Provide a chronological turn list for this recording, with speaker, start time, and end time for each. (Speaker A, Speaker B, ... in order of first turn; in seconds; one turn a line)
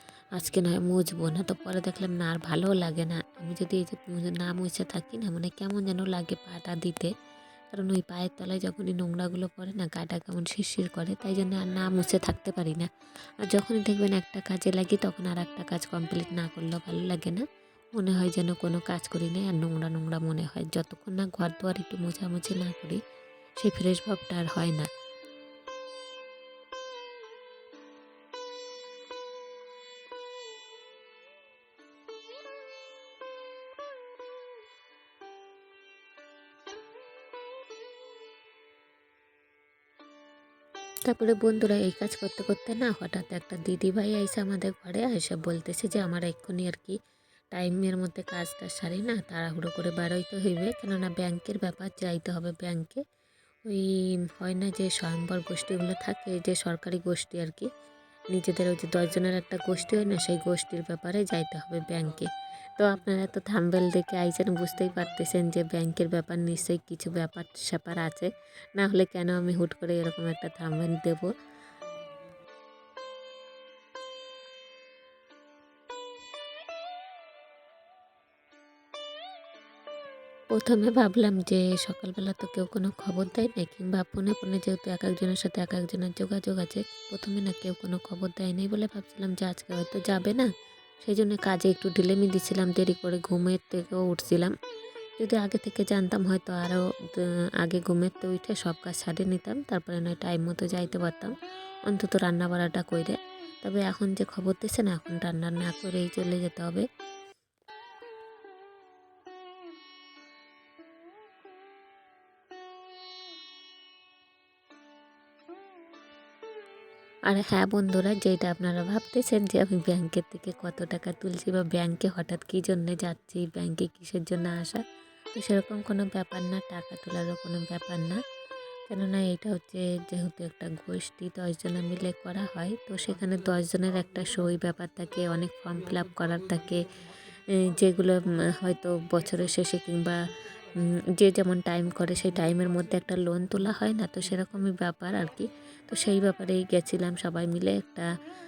Speaker A: 0.3-7.1
Speaker A: 7.7-23.0
Speaker A: 23.6-24.9
Speaker A: 41.0-47.0
Speaker A: 47.5-53.0
Speaker A: 53.6-57.7
Speaker A: 58.3-71.3
Speaker A: 80.5-90.5
Speaker A: 91.0-94.5
Speaker A: 95.2-101.3
Speaker A: 101.8-106.8
Speaker A: 117.3-124.8
Speaker A: 125.3-128.2
Speaker A: 128.9-136.8
Speaker A: 137.5-148.1